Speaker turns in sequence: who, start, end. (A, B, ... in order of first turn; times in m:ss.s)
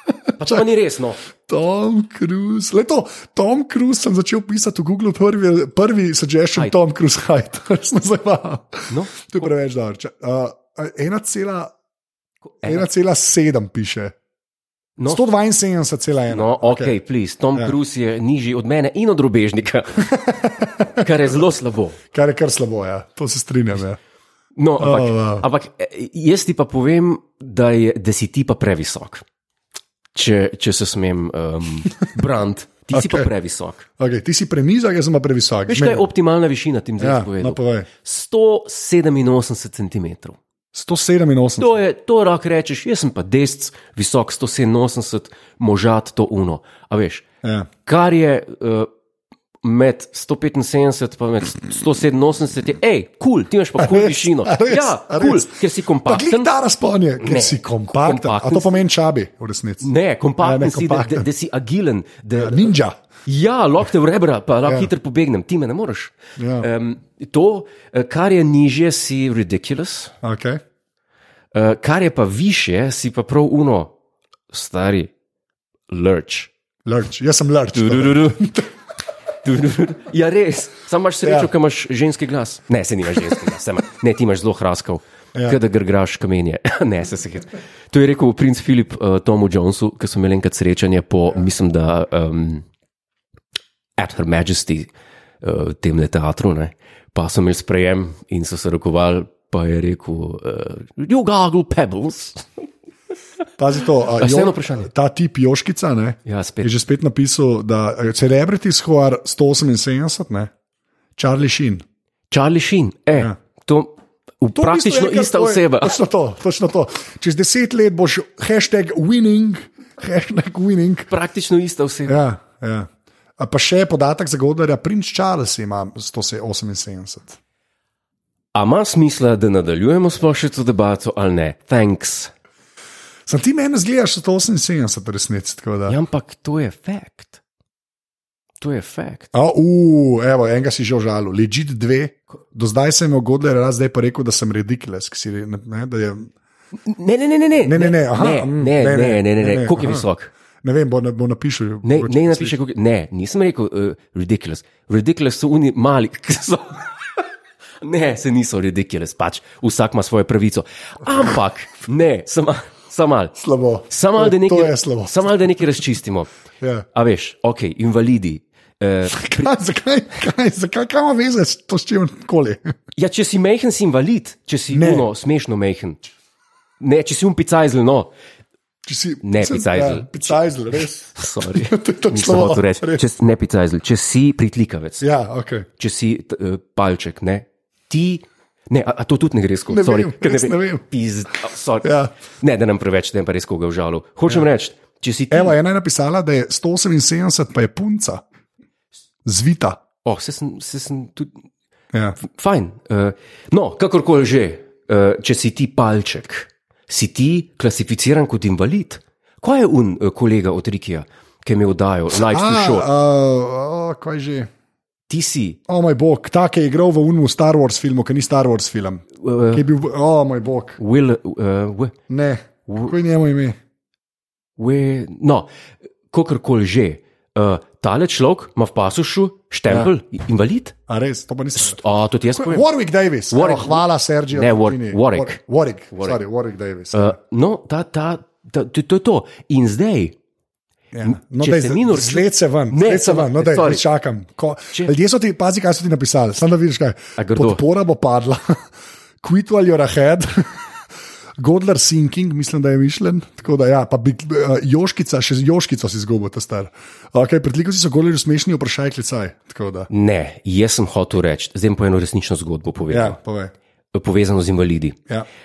0:00.3-0:00.6 A
0:00.4-0:01.2 B
0:01.5-0:11.7 A
0:08.9-0:09.4 B
0:12.5-0:12.8 B
0:12.6-0:14.1 A
0:15.0-0:15.2 B
0:15.1-0:17.0 A
0:16.3-0:20.3 B
0:20.0-0:21.1 A
0:20.9-0:22.0 B
0:22.1-0:24.0 A
0:24.6-0:29.2 B
0:24.8-0:25.4 A
0:30.1-0:33.8 B
0:32.9-0:33.3 A
0:34.0-0:36.0 A
0:35.7-0:40.4 B
0:37.0-0:37.9 A
0:40.7-0:41.8 A
0:41.6-0:47.2 B
0:47.4-0:47.7 A
0:47.8-0:48.9 B
0:49.6-0:56.5 B
0:53.8-0:59.9 A
0:57.2-0:58.8 B
0:59.8-1:10.1 B
1:00.4-1:01.3 A
1:02.4-1:03.0 A
1:04.6-1:04.9 A
1:06.4-1:06.7 A
1:10.2-1:10.6 A
1:11.5-1:13.9 B
1:14.5-1:15.1 B
1:15.9-1:16.5 B
1:16.8-1:18.7 A
1:17.7-1:18.6 B
1:19.4-1:32.6 B
1:21.2-1:21.5 A
1:25.3-1:25.6 A
1:34.0-1:34.9 B
1:35.4-1:42.5 B
1:43.6-1:50.5 A
1:44.1-1:44.9 B
1:46.2-1:46.7 B
1:51.2-1:51.8 A
1:52.3-1:56.0 B
1:54.5-2:01.1 A
2:01.1-2:02.2 B
2:02.0-2:07.4 A
2:08.5-2:12.3 B
2:13.3-2:16.0 A
2:15.9-2:17.4 B
2:18.6-2:19.3 B
2:19.3-2:26.3 A
2:26.8-2:30.3 B
2:27.6-2:30.0 A
2:30.6-2:32.6 A
2:31.8-2:36.8 B
2:37.8-2:43.4 B
2:43.4-2:45.8 A
2:43.9-2:46.3 B
2:46.6-2:46.8 A
2:46.9-2:49.5 B
2:49.1-2:52.7 A
2:53.0-2:56.0 B
2:54.7-2:55.1 A
2:56.8-2:58.1 B
2:58.8-3:03.0 A
2:59.2-3:00.4 B
3:01.1-3:05.0 B
3:05.0-3:05.7 A
3:05.8-3:15.6 B
3:09.7-3:10.8 A
3:11.8-3:12.1 A
3:15.3-3:18.2 A
3:19.2-3:19.8 A
3:20.0-3:21.3 B
3:22.2-3:32.9 B
3:32.1-3:34.5 A
3:35.1-3:35.6 B
3:35.7-3:40.8 A
3:39.2-3:39.6 B
3:40.8-3:41.9 B
3:42.1-3:43.6 A
3:42.7-3:42.9 B
3:44.6-3:45.5 B
3:46.1-3:50.7 B
3:50.9-3:51.8 A
3:51.6-3:52.7 B
3:52.3-3:57.2 A
3:53.3-3:55.4 B
3:55.9-3:56.2 B
3:56.9-4:00.2 B
4:00.9-4:08.6 A
4:01.0-4:03.8 B
4:07.2-4:07.6 B
4:09.2-4:10.7 A
4:11.4-4:19.9 A
4:19.9-4:23.2 B
4:22.9-4:23.5 A
4:23.9-4:25.0 B